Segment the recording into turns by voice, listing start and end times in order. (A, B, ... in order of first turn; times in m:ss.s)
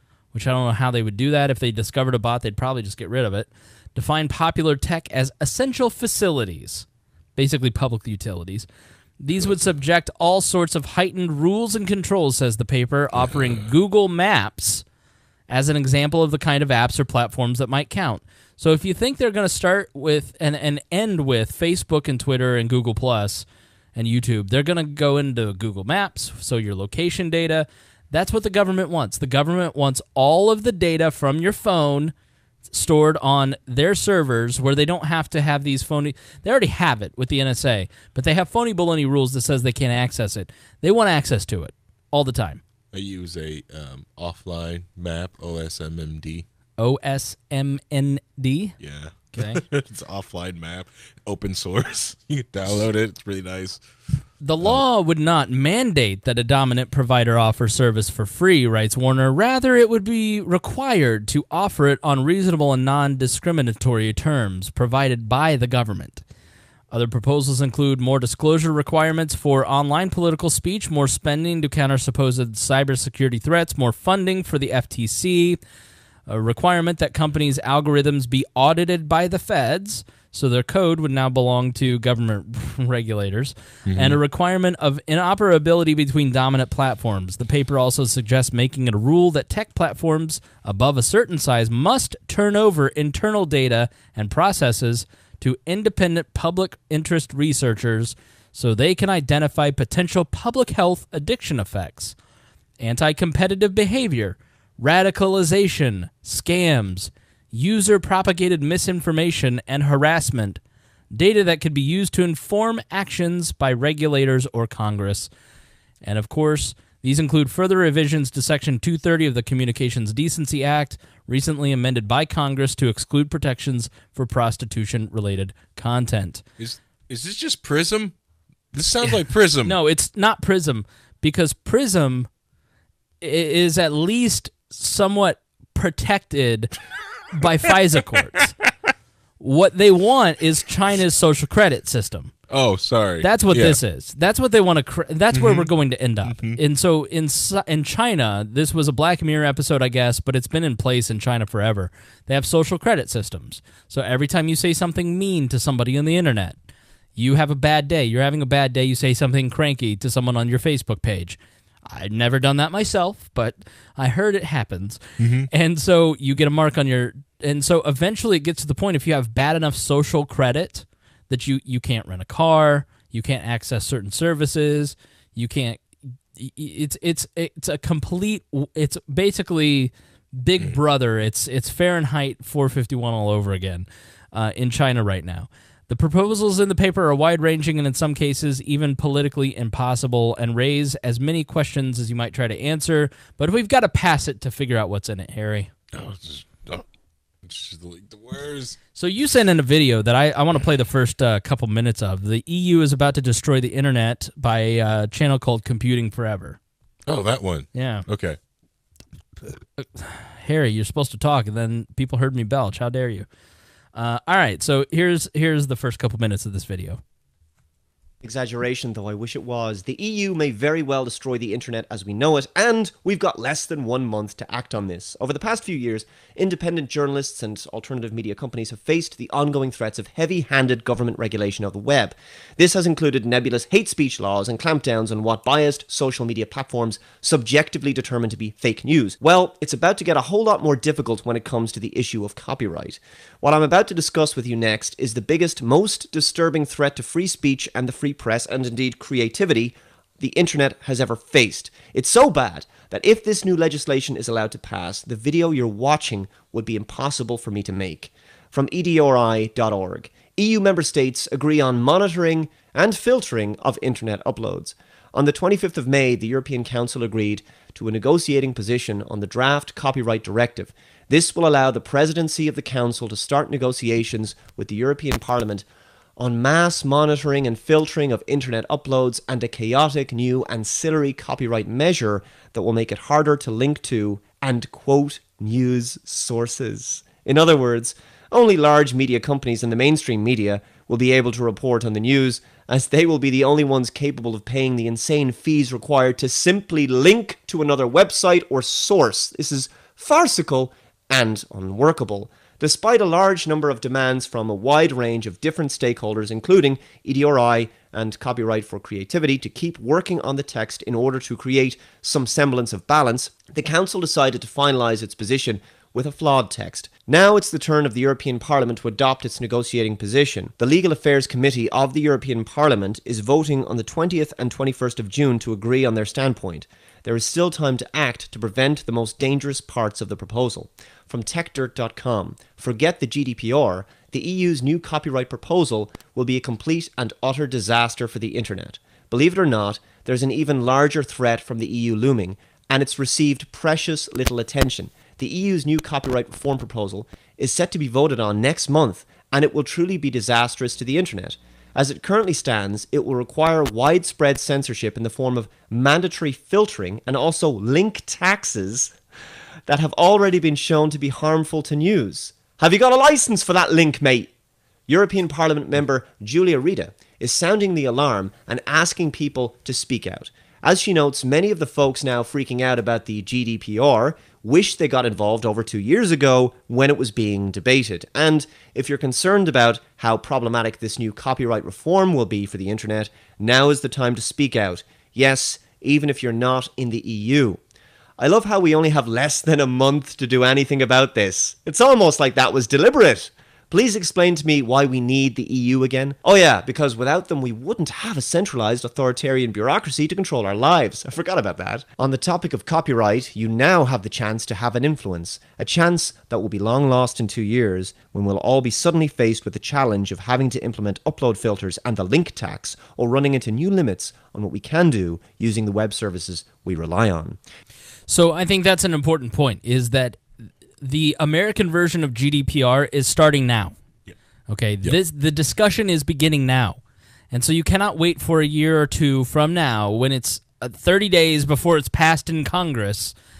0:00.3-0:08.7 A
0:09.2-0:14.8 A
0:09.4-0:09.7 B
0:13.1-0:13.7 B
0:15.5-0:32.1 A
0:32.7-0:42.6 A
0:42.9-0:46.4 B
0:46.8-0:48.8 A
0:48.8-0:53.8 B
0:49.4-0:49.6 A
0:54.4-1:06.2 A
1:06.9-1:15.6 A
1:16.3-1:42.1 A
1:23.8-1:24.2 B
1:42.8-1:55.3 A
1:56.0-2:06.4 A
2:06.6-2:08.1 B
2:08.7-2:09.8 B
2:09.6-2:12.3 A
2:13.2-2:16.8 A
2:17.3-2:18.5 A
2:19.4-2:22.3 A
2:22.5-2:23.8 B
2:23.2-2:36.6 A
2:25.3-2:25.7 B
2:26.2-2:26.6 B
2:37.2-2:55.8 A
2:45.2-2:45.5 B
2:56.3-3:15.7 A
3:15.9-3:16.8 B
3:17.4-3:18.8 B
3:18.9-3:26.6 A
3:27.0-3:28.4 B
3:27.7-3:28.0 A
3:29.8-3:33.2 A
3:33.9-3:37.0 A
3:38.2-4:35.6 C
4:36.2-5:58.9 C
5:59.7-6:04.3 C
6:04.9-6:27.6 C
6:28.2-6:57.4 C
6:58.1-7:03.8 A
7:04.5-7:06.8 A
7:07.3-7:13.1 A